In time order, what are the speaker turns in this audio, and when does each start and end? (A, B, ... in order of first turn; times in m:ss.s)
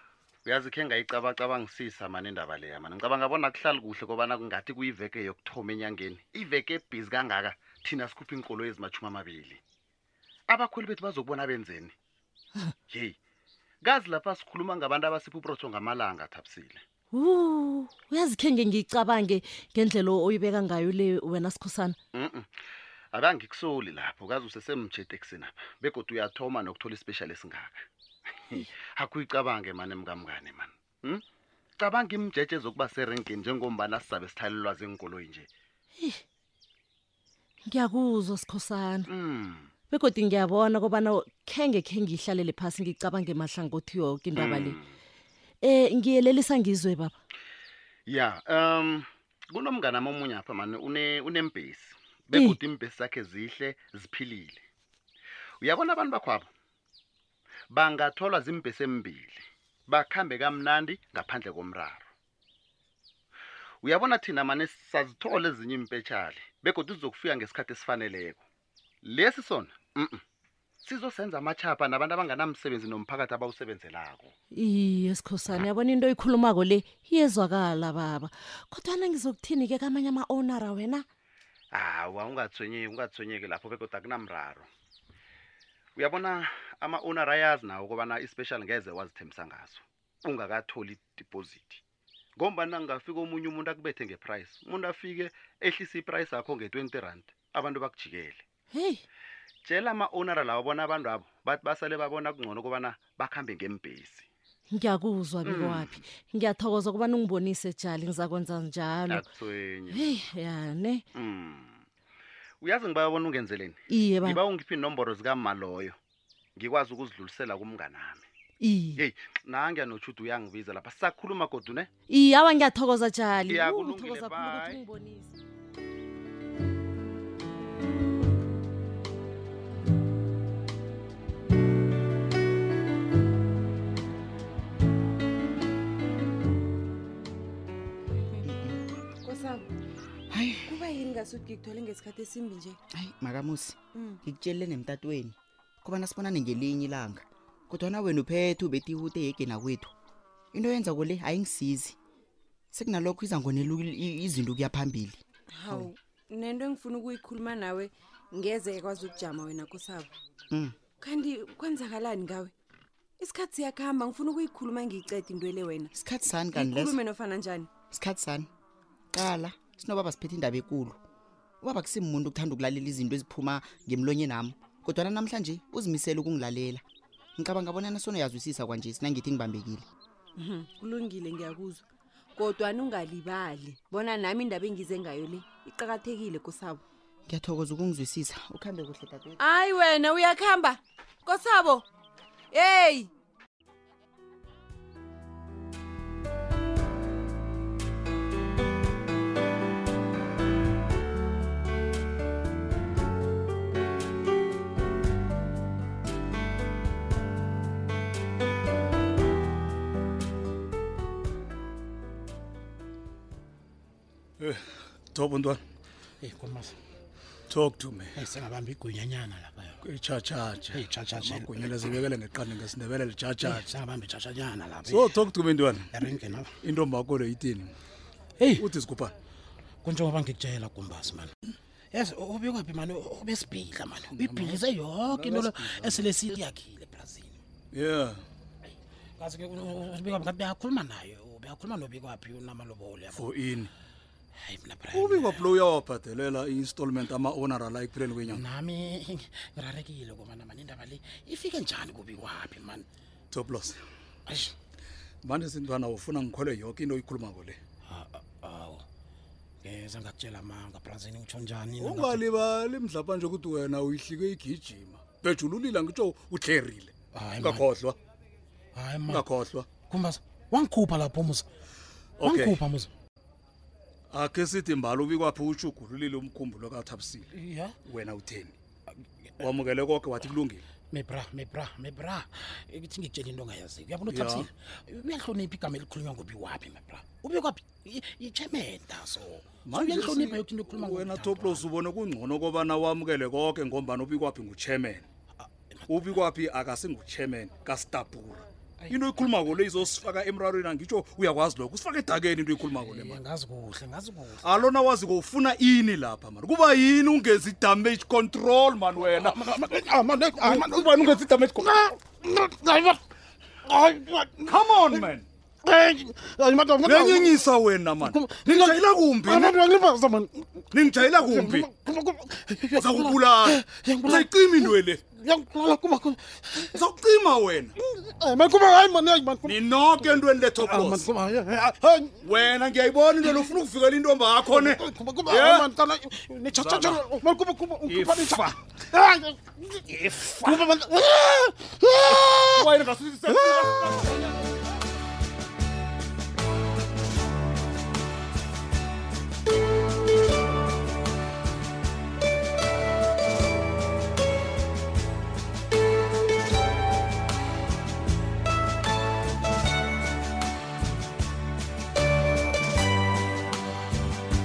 0:00.4-0:09.6 A
0:10.5-0:11.9 A
0:12.9-0:13.2 A
0:13.8-0:16.8 A
0:17.1-0:22.0 B
0:22.1-0:22.5 A
0:23.1-0:27.8 A
0:28.4-0:31.2 A
0:31.8-0:35.5 A
0:37.7-0:39.1 B
0:39.1-0:39.7 A
0:39.9-0:44.8 B
0:44.3-0:44.9 A
0:45.6-0:47.1 B
0:48.1-0:54.6 A
0:55.6-0:56.5 A
0:57.7-1:02.1 A
1:03.8-1:08.4 A
1:09.0-1:10.2 A
1:10.8-1:14.3 A
1:14.5-1:21.0 B
1:21.7-1:24.7 A
1:26.0-1:31.8 A
1:32.4-1:38.4 A
1:38.7-1:39.0 B
1:39.6-1:44.3 A
1:44.7-1:49.2 B
1:45.4-1:46.0 A
1:49.1-1:50.2 A
1:49.9-1:51.0 B
1:51.1-1:51.8 A
1:52.6-1:56.0 A
1:53.9-1:54.4 B
1:56.6-1:58.2 A
1:58.6-1:59.0 B
1:58.9-2:01.9 A
2:02.1-2:05.3 B
2:03.4-2:04.8 A
2:18.4-2:18.8 C
2:19.2-2:19.7 D
2:20.3-2:20.7 C
2:20.7-2:22.8 D
2:22.9-2:29.9 C
2:23.9-2:24.2 D
2:30.5-2:32.0 C
2:32.7-2:35.9 C
2:35.5-2:40.1 D
2:40.5-2:40.8 C
2:41.0-2:42.5 D
2:43.2-2:45.9 D
2:45.9-2:47.0 C
2:46.5-2:47.7 D
2:47.9-2:48.5 C
2:49.1-2:51.0 C
2:51.6-2:56.8 C
2:57.4-2:59.9 C
3:00.3-3:06.8 D
3:07.3-3:09.4 C
3:09.4-3:11.9 D
3:12.5-3:13.1 D
3:35.1-3:35.6 E
3:36.2-3:36.8 F
3:37.5-3:38.2 E
3:38.1-3:39.8 F
3:39.8-3:43.6 E
3:40.7-3:41.9 F
3:43.4-3:45.2 F
3:44.8-3:45.9 E
3:45.9-3:46.5 F
3:46.6-3:47.7 E
3:48.4-3:48.7 F
3:48.6-3:49.1 E
3:49.8-3:51.3 F
3:51.9-3:57.4 F
3:54.1-3:56.0 E
3:57.7-3:58.2 E
3:59.2-4:03.2 F
4:03.1-4:03.7 E
4:04.4-4:05.5 F
4:04.9-4:08.4 E
4:08.2-4:12.9 F
4:13.3-4:13.8 E
4:14.2-4:14.5 F
4:15.2-4:17.6 E
4:17.8-4:18.8 F
4:19.6-4:22.2 F
4:21.8-4:28.0 E
4:27.1-4:27.6 F
4:28.7-4:29.2 F
4:29.1-4:29.7 E
4:29.8-4:31.5 F
4:32.2-4:32.6 E
4:32.2-4:32.9 F
4:34.1-4:37.2 E
4:37.3-4:37.8 F
4:37.8-4:38.6 E
4:39.4-4:40.6 E
4:40.9-4:51.7 F
4:44.1-4:44.5 E
4:49.6-4:55.0 E
4:55.7-4:56.2 F
4:55.9-5:03.2 E
4:58.8-4:59.9 F
5:02.7-5:04.4 F
5:04.4-5:12.0 E
5:09.1-5:10.8 F
5:12.2-5:12.9 F
5:13.8-5:14.3 F
5:14.4-5:15.3 E
5:15.6-5:17.3 F
5:16.7-5:19.8 E
5:18.0-5:18.7 F
5:19.8-5:20.3 F
5:20.7-5:21.8 E
5:22.0-5:26.4 F
5:22.7-5:25.0 E
5:26.6-5:27.7 E
5:28.1-5:29.4 F
5:29.4-5:31.2 E
5:30.6-5:32.1 F
5:32.2-5:35.7 E
5:34.6-5:42.6 F
5:36.5-5:37.2 E
5:37.8-5:38.4 E
5:40.0-5:40.7 E
5:42.1-5:44.1 E